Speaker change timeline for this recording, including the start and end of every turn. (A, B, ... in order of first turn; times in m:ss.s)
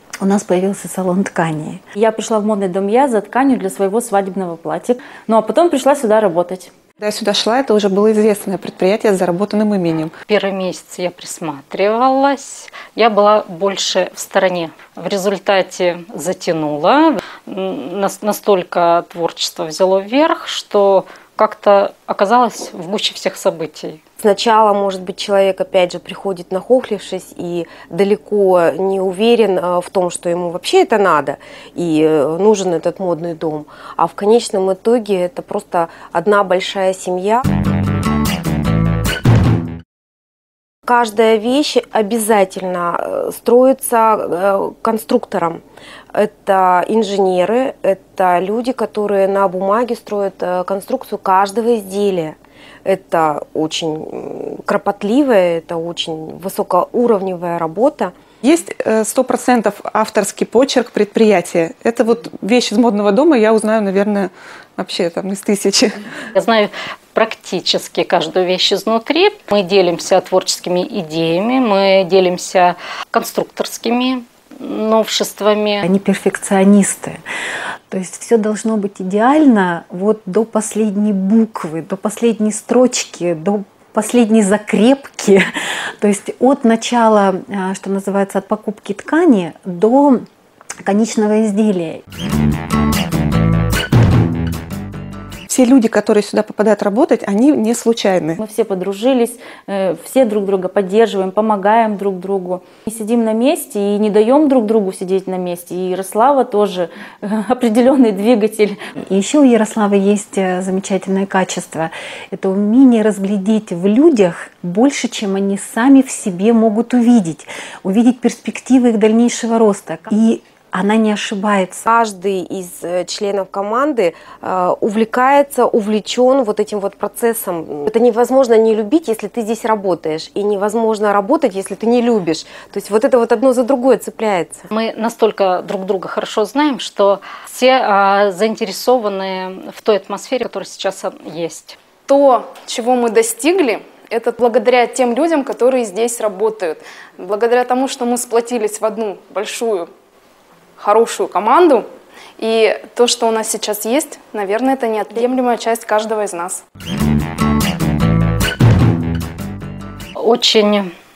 0:00.2-0:01.8 A
0:02.0-0:06.7 B
0:07.0-0:10.1 C
0:10.3-0:24.0 D
0:24.2-0:37.4 E
0:40.9-0:45.6 E
0:46.1-0:58.1 E
0:58.4-1:06.0 C
1:06.4-1:15.8 D
1:15.8-1:17.2 A
1:17.9-1:25.4 A
1:26.0-1:30.3 A
1:30.8-1:32.0 A
1:35.5-1:38.4 C
1:38.4-1:48.8 B
1:49.1-2:01.9 A
2:01.9-2:14.7 E
2:14.7-2:21.8 D
2:22.1-2:29.9 F
2:30.8-2:31.9 F
2:32.4-2:36.6 F
2:40.2-2:40.9 D